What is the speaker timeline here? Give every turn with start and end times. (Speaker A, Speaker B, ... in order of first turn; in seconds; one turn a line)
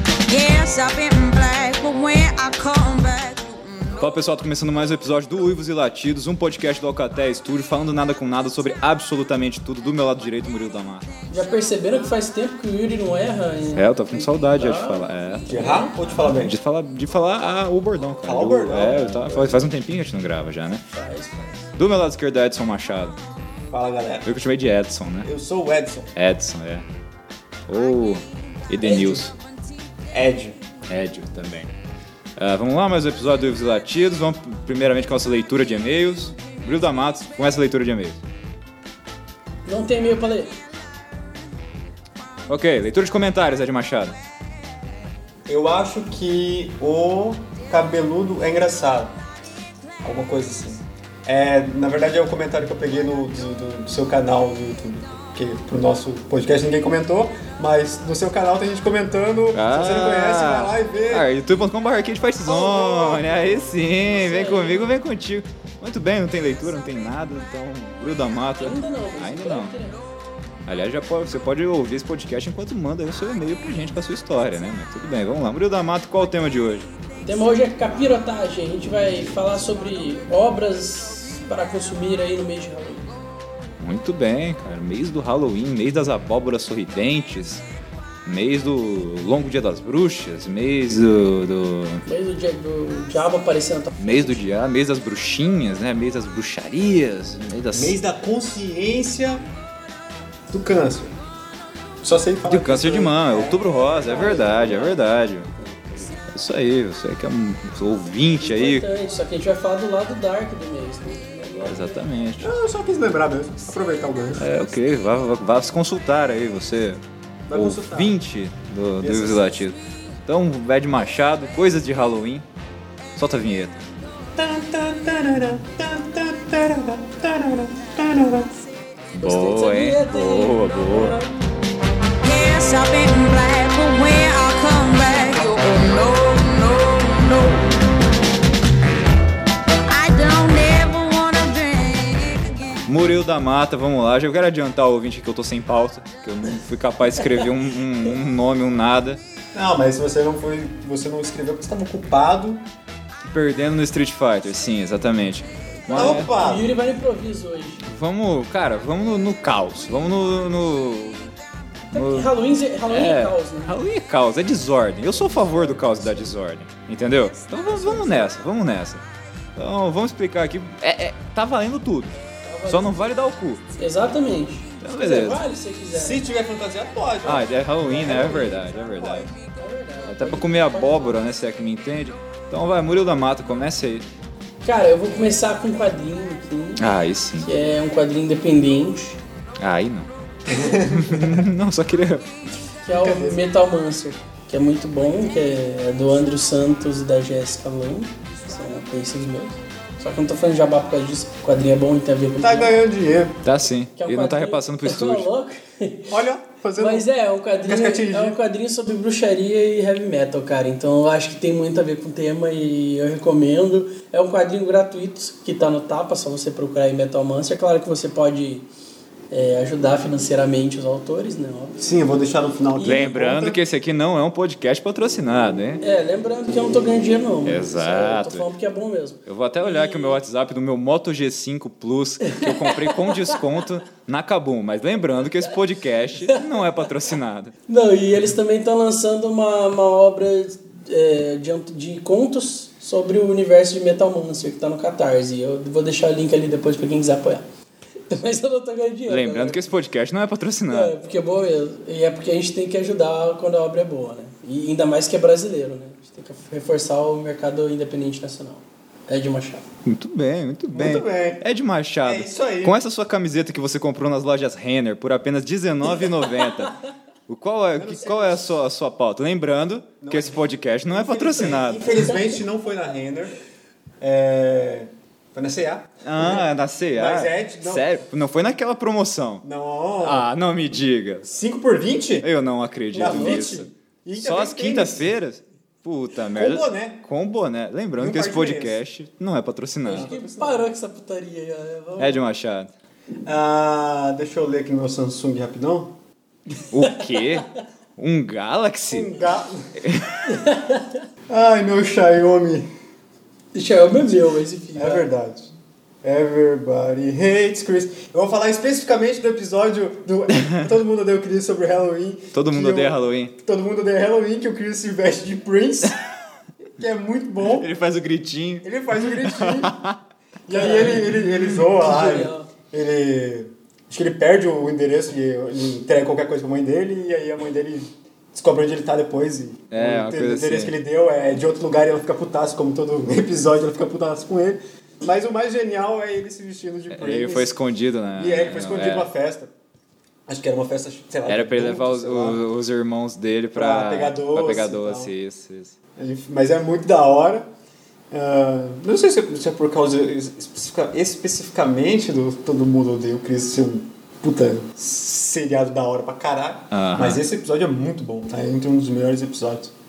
Speaker A: 0.3-4.1
Speaker B: 4.0-11.1
Speaker C: 11.3-15.9
Speaker B: 13.8-20.8
Speaker D: 15.5-16.6
Speaker D: 18.2-19.8
Speaker C: 20.9-21.7
Speaker B: 21.8-23.1
Speaker D: 23.7-24.3
Speaker B: 24.2-25.3
Speaker D: 25.2-26.1
Speaker B: 26.1-26.9
Speaker B: 27.7-29.4
Speaker D: 28.9-29.2
Speaker D: 30.1-30.6
Speaker B: 30.9-31.7
Speaker B: 32.4-38.2
Speaker C: 39.7-40.6
Speaker B: 42.5-44.1
Speaker D: 45.5-49.2
Speaker D: 50.0-61.3
Speaker B: 59.5-69.7
Speaker D: 62.5-63.7
Speaker C: 64.0-64.9
Speaker C: 68.6-70.0
Speaker B: 70.7-76.9
Speaker C: 77.2-83.1
Speaker B: 83.8-87.6
Speaker B: 88.3-92.0
Speaker C: 92.1-94.4
Speaker B: 94.0-98.0
Speaker D: 97.7-99.4
Speaker D: 100.5-101.2
Speaker D: 102.0-104.9
Speaker B: 102.5-105.5
Speaker C: 104.1-105.0
Speaker C: 105.6-106.2
Speaker B: 106.3-108.8
Speaker C: 108.4-112.0
Speaker B: 111.6-112.5
Speaker D: 112.4-114.5
Speaker B: 114.4-117.0
Speaker D: 117.5-118.2
Speaker B: 117.5-122.4
Speaker D: 119.0-119.6
Speaker B: 123.2-123.8
Speaker D: 124.4-128.6
Speaker B: 129.2-131.2
Speaker C: 129.2-131.3
Speaker A: 132.2-137.7
Speaker A: 139.9-142.8
Speaker B: 142.9-149.2
Speaker D: 149.5-152.7
Speaker B: 153.3-156.3
Speaker C: 155.9-157.9
Speaker D: 155.9-156.7
Speaker B: 157.9-161.3
Speaker B: 161.9-162.3
Speaker C: 161.9-163.8
Speaker B: 162.9-169.0
Speaker C: 167.7-168.3
Speaker D: 167.8-168.2
Speaker B: 169.6-172.2
Speaker C: 172.4-173.1
Speaker B: 172.7-173.6
Speaker C: 173.8-176.2
Speaker B: 174.8-175.4
Speaker D: 175.9-179.3
Speaker B: 177.2-179.3
Speaker C: 178.0-178.6
Speaker C: 179.5-181.2
Speaker B: 180.1-184.1
Speaker C: 184.6-186.8
Speaker B: 186.8-187.5
Speaker C: 187.4-189.2
Speaker B: 189.6-190.1
Speaker D: 190.5-191.5
Speaker B: 190.8-192.3
Speaker C: 192.8-202.8
Speaker D: 192.9-193.4
Speaker D: 202.4-203.4
Speaker B: 203.4-205.3
Speaker C: 204.0-206.2
Speaker D: 206.1-207.1
Speaker C: 206.8-218.7
Speaker D: 207.7-208.4
Speaker C: 219.3-221.8
Speaker D: 221.8-223.6
Speaker C: 222.8-223.1
Speaker B: 222.8-225.8
Speaker C: 225.8-230.2
Speaker B: 227.4-228.5
Speaker B: 229.3-237.6
Speaker C: 232.2-233.6
Speaker C: 237.7-247.4
Speaker C: 248.1-249.6
Speaker B: 249.1-251.0
Speaker C: 250.7-259.7
Speaker B: 259.9-272.1
Speaker D: 260.7-261.4
Speaker D: 262.0-262.8
Speaker C: 266.4-266.7
Speaker D: 267.8-268.5
Speaker D: 270.0-273.4
Speaker C: 272.0-272.3
Speaker D: 274.0-278.0
Speaker B: 276.0-279.4
Speaker D: 279.4-280.3
Speaker B: 280.0-281.3
Speaker D: 281.2-282.3
Speaker B: 282.2-290.1
Speaker C: 282.9-283.6
Speaker D: 282.9-285.1
Speaker D: 286.4-287.0
Speaker D: 288.0-288.8
Speaker D: 289.9-290.7
Speaker C: 289.9-292.2
Speaker B: 292.0-292.7
Speaker D: 293.2-295.9
Speaker B: 296.7-299.2
Speaker C: 297.2-297.5
Speaker D: 298.9-299.8
Speaker B: 299.8-300.3
Speaker C: 300.3-301.0
Speaker D: 301.3-302.7
Speaker C: 303.5-305.1
Speaker D: 304.8-316.0
Speaker B: 312.3-313.3
Speaker D: 316.7-317.7
Speaker B: 317.5-320.0
Speaker D: 318.6-319.8
Speaker D: 320.5-337.6
Speaker C: 320.5-321.1
Speaker C: 321.7-322.5
Speaker B: 329.7-330.7
Speaker B: 336.9-339.1
Speaker D: 338.2-339.5
Speaker D: 340.3-342.4
Speaker B: 341.3-345.8
Speaker D: 343.5-345.1
Speaker D: 346.0-347.5
Speaker D: 348.1-359.7
Speaker B: 356.7-357.2